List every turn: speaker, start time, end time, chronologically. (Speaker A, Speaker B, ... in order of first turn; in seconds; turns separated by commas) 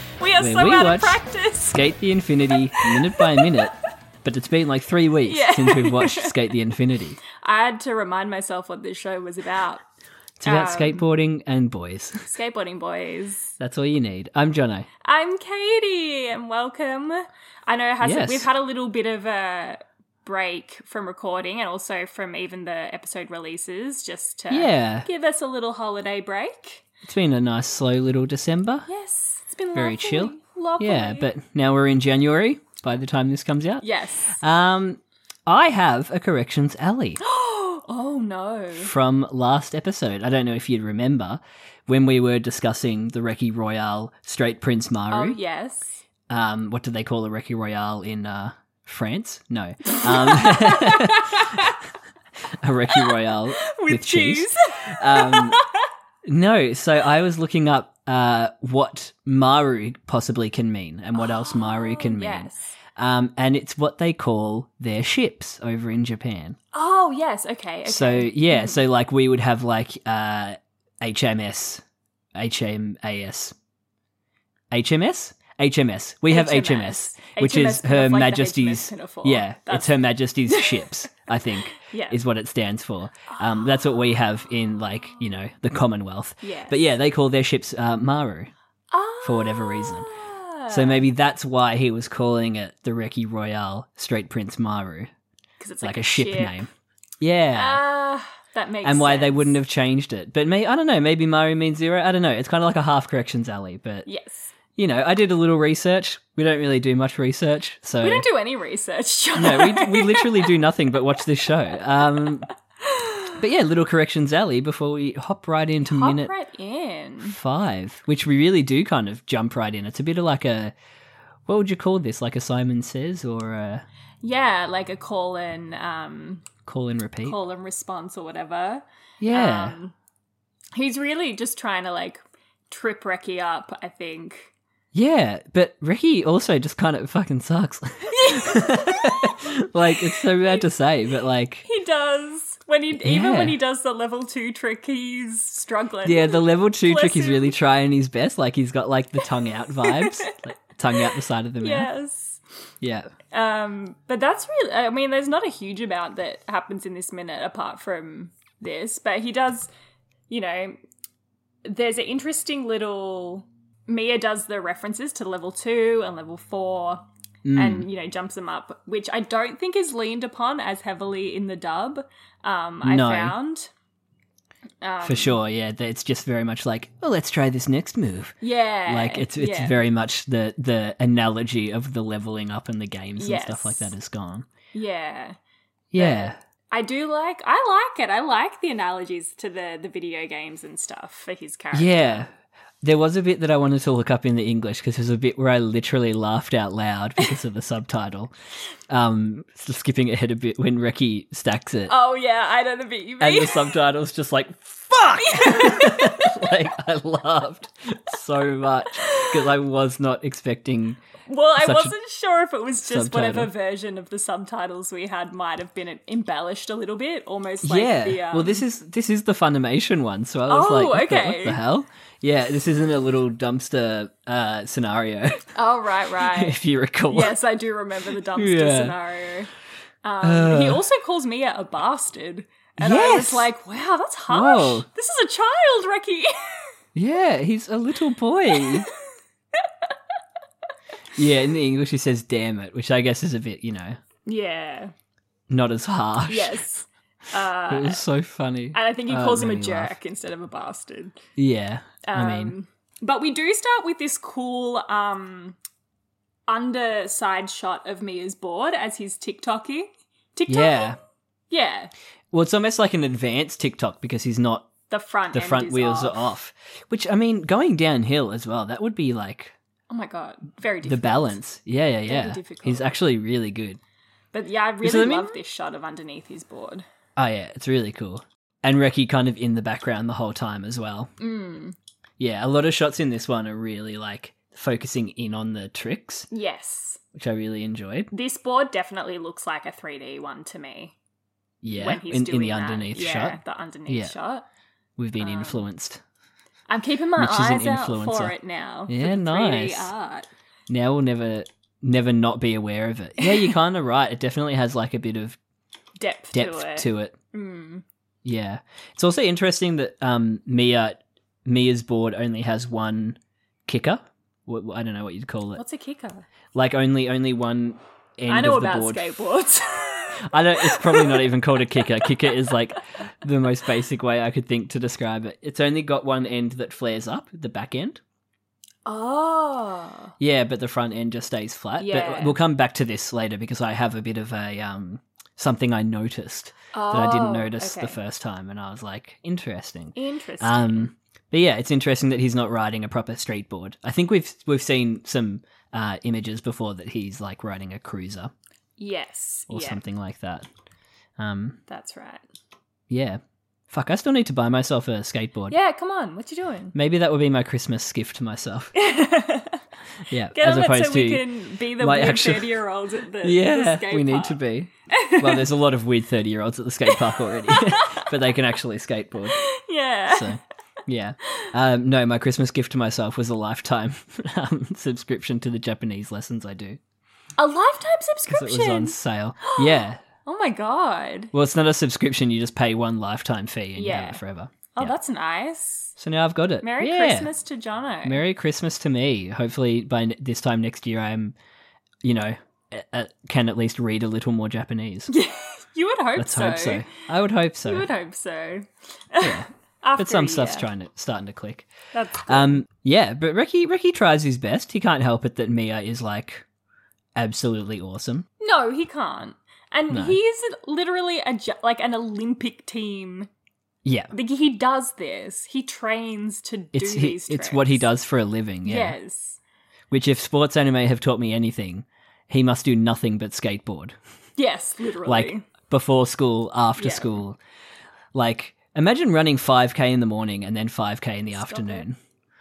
Speaker A: 0.2-1.8, Speaker B: 0.4-7.2, Speaker A: 2.8-3.4, Speaker A: 5.2-6.3, Speaker A: 7.3-9.8, Speaker B: 10.4-12.3, Speaker A: 10.4-11.1, Speaker A: 12.2-13.5, Speaker B: 13.6-14.9, Speaker A: 15.0-26.8, Speaker B: 18.0-18.5, Speaker B: 24.5-25.1, Speaker B: 27.0-28.9, Speaker A: 28.9-31.3, Speaker B: 29.7-37.2, Speaker A: 33.8-34.4, Speaker A: 37.2-38.9, Speaker B: 38.7-45.4, Speaker A: 45.1-46.0, Speaker B: 46.3-51.5, Speaker A: 50.0-51.2, Speaker B: 52.6-55.6, Speaker A: 53.7-55.6, Speaker B: 56.2-66.6, Speaker A: 61.2-62.7, Speaker A: 66.7-68.8, Speaker B: 67.8-71.8, Speaker B: 72.3-73.5, Speaker B: 74.7-88.5, Speaker A: 76.3-80.9, Speaker A: 81.8-82.2, Speaker A: 83.3-83.7, Speaker A: 86.4-86.8, Speaker A: 88.9-91.1, Speaker B: 89.2-90.1, Speaker B: 90.7-95.1, Speaker A: 95.6-96.7, Speaker B: 95.8-97.8, Speaker A: 97.5-99.6, Speaker B: 98.8-104.1, Speaker A: 104.0-104.5, Speaker B: 104.8-108.2, Speaker A: 108.0-110.6, Speaker B: 109.3-112.5, Speaker A: 112.9-113.3, Speaker B: 113.3-116.3, Speaker A: 115.8-117.3, Speaker B: 117.2-120.7, Speaker B: 121.5-123.8, Speaker A: 124.2-126.5, Speaker B: 126.6-127.4, Speaker A: 127.2-129.9, Speaker B: 129.2-129.8, Speaker A: 130.7-134.5, Speaker B: 134.9-141.6, Speaker A: 138.1-139.3, Speaker A: 140.1-140.6, Speaker A: 141.6-147.5, Speaker B: 143.0-143.6, Speaker B: 146.0-151.9, Speaker A: 149.8-150.4, Speaker A: 151.6-152.4, Speaker B: 152.8-153.1, Speaker A: 153.3-159.7, Speaker A: 160.3-160.8, Speaker A: 161.6-167.0, Speaker B: 167.4-167.9, Speaker A: 167.5-173.7, Speaker B: 172.8-173.4, Speaker A: 174.8-175.4, Speaker B: 175.0-184.5, Speaker A: 178.4-179.7, Speaker A: 183.2-183.9, Speaker A: 184.7-185.4, Speaker B: 185.9-186.4, Speaker A: 185.9-192.3, Speaker B: 191.7-198.3, Speaker B: 198.9-201.9, Speaker A: 201.9-203.7, Speaker B: 203.2-211.0, Speaker A: 205.2-206.4, Speaker A: 209.0-209.3, Speaker A: 211.3-218.6, Speaker B: 211.6-211.9, Speaker B: 212.8-213.5, Speaker B: 217.6-225.5, Speaker A: 220.5-221.6, Speaker A: 225.5-226.6, Speaker B: 226.2-227.4, Speaker A: 227.1-229.5, Speaker B: 228.3-229.0, Speaker A: 230.0-236.6, Speaker B: 230.2-230.8, Speaker B: 232.8-233.5, Speaker B: 234.3-234.9, Speaker B: 236.9-238.9, Speaker B: 241.2-244.0, Speaker A: 244.2-244.9, Speaker B: 245.5-246.6, Speaker A: 246.3-248.0, Speaker B: 247.7-249.9, Speaker A: 248.7-251.2, Speaker B: 251.4-252.5, Speaker A: 252.0-255.6, Speaker A: 256.5-261.0, Speaker B: 260.5-261.0, Speaker A: 261.5-261.9, Speaker B: 262.3-264.7, Speaker A: 264.9-266.3, Speaker B: 265.3-269.5, Speaker A: 269.9-271.4, Speaker B: 270.8-273.8, Speaker A: 272.1-272.9, Speaker A: 274.3-276.8, Speaker B: 274.8-275.4, Speaker B: 277.1-281.1, Speaker A: 281.2-281.8, Speaker B: 282.2-286.3, Speaker A: 286.3-287.0, Speaker B: 287.1-288.1, Speaker A: 288.1-290.9, Speaker B: 291.6-294.1, Speaker A: 291.7-294.4, Speaker B: 295.0-296.0, Speaker A: 295.2-295.6, Speaker A: 296.7-300.3, Speaker B: 297.1-298.4, Speaker B: 298.9-299.9, Speaker B: 300.7-305.4, Speaker A: 303.2-303.4, Speaker A: 306.0-307.8, Speaker B: 306.3-307.1, Speaker B: 308.2-315.6, Speaker A: 315.6-316.2, Speaker B: 316.5-319.2, Speaker A: 318.3-321.2, Speaker B: 320.2-328.0, Speaker A: 328.9-330.1, Speaker B: 330.2-348.3, Speaker A: 331.8-332.4, Speaker A: 336.7-338.0, Speaker A: 339.9-340.9, Speaker A: 348.8-349.8, Speaker B: 349.5-350.5, Speaker B: 351.2-351.6, Speaker A: 351.7-352.2, Speaker B: 352.9-355.6, Speaker A: 355.5-356.7, Speaker B: 356.7-358.7, Speaker A: 358.7-359.6, Speaker B: 360.1-362.6, Speaker A: 360.3-365.4, Speaker B: 363.2-369.4, Speaker A: 366.9-368.1, Speaker A: 369.3-370.4, Speaker B: 370.1-376.8, Speaker A: 377.4-381.3, Speaker B: 378.3-380.0, Speaker B: 381.3-384.9, Speaker A: 383.8-384.2, Speaker A: 384.7-385.9, Speaker B: 386.0-387.3, Speaker A: 386.6-388.2, Speaker B: 388.0-391.3, Speaker B: 392.0-395.1, Speaker A: 395.1-396.9, Speaker B: 396.1-397.9, Speaker A: 397.6-400.7, Speaker B: 399.2-401.7, Speaker A: 401.9-402.6, Speaker B: 402.2-406.4, Speaker B: 407.1-408.3, Speaker A: 408.4-413.3, Speaker B: 409.9-410.2, Speaker B: 413.8-414.1, Speaker A: 414.1-417.9, Speaker B: 416.7-419.0, Speaker A: 418.6-419.4, Speaker B: 419.9-423.9, Speaker A: 424.4-425.4, Speaker B: 425.0-427.4, Speaker A: 426.8-427.2, Speaker B: 428.1-432.0, Speaker A: 431.3-431.9